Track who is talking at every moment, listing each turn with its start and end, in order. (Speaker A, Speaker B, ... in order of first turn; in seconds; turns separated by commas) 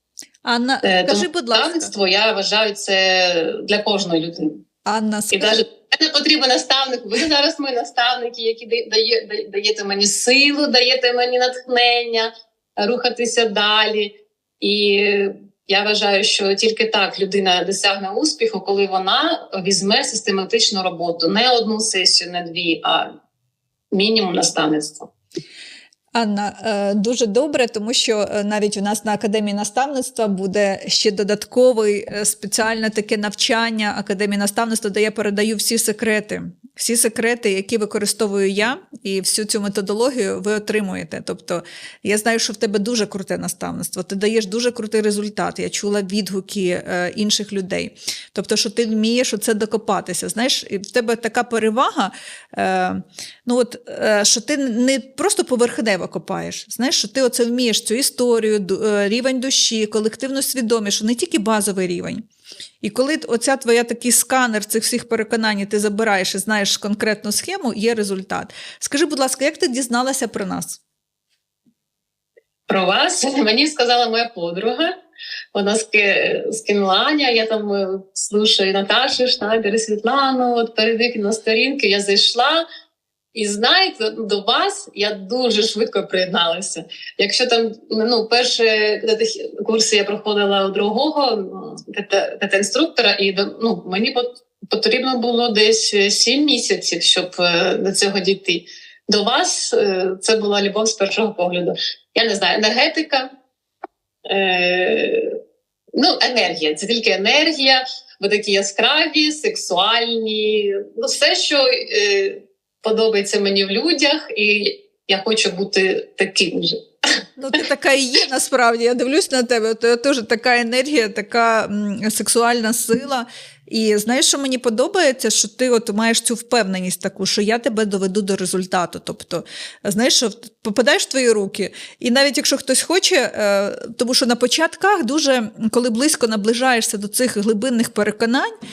Speaker A: 0.4-1.9, Speaker B: 0.8-4.6, Speaker A: 4.9-5.6, Speaker B: 5.3-23.1, Speaker B: 23.9-25.1, Speaker A: 26.1-62.2, Speaker A: 62.8-70.8, Speaker B: 72.7-75.0, Speaker B: 75.5-82.6, Speaker B: 83.3-103.3, Speaker B: 104.2-105.4, Speaker B: 106.0-116.8, Speaker A: 117.4-138.5